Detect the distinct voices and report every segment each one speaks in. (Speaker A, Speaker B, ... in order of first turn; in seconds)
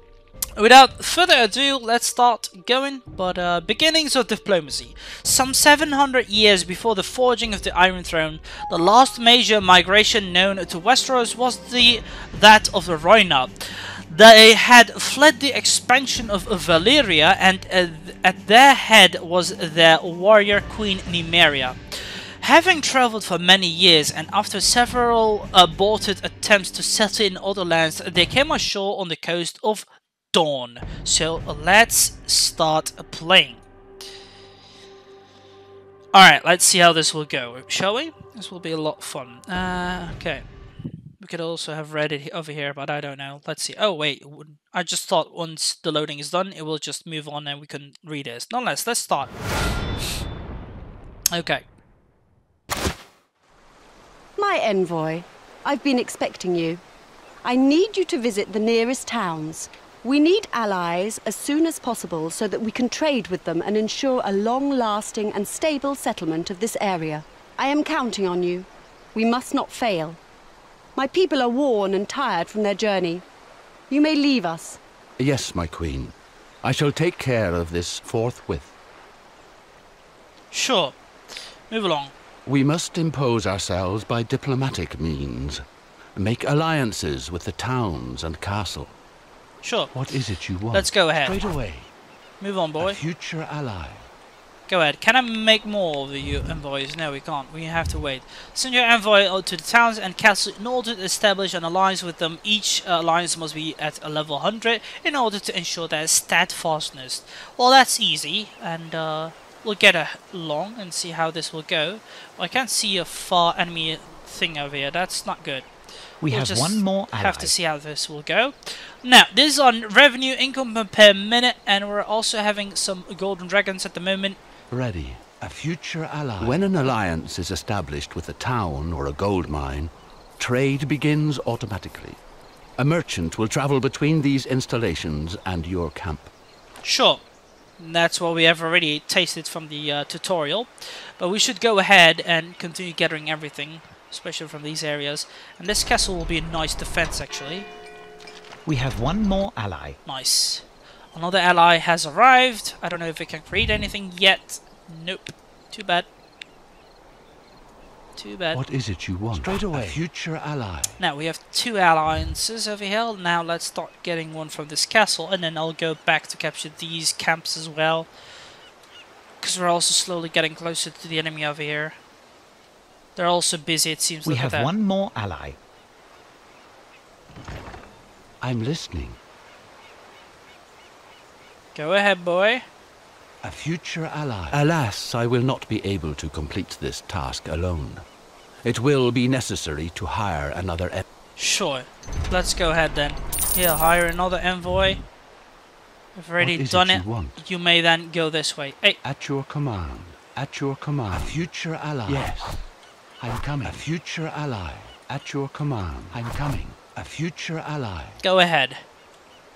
Speaker A: 0.6-13.6, 14.1-33.6, 36.1-40.5, 41.2-49.3, 51.3-51.6, 80.5-82.1, 89.6-89.9, 90.7-91.4, 92.4-93.0, 94.7-115.7, 116.3-124.4, 136.8-137.2, 137.8-147.7, 150.0-156.1, 158.2-158.6, 161.0-168.1, 169.4-172.0, 173.2-174.7, 181.7-182.6, 191.4-195.0, 196.1-199.0, 208.2-208.8
Speaker B: 54.4-56.8, 57.4-70.2, 71.0-73.2, 73.9-74.8
Speaker C: 75.2-78.7, 82.5-88.9, 89.9-91.9, 92.8-94.1, 124.7-132.2, 132.8-136.3, 158.5-161.0, 178.4-179.2, 183.4-188.0, 188.6-191.0, 196.4-197.4, 199.0-202.7, 203.2-208.2
Speaker D: 116.2-117.5, 148.6-150.0, 159.3-159.9, 174.2-175.6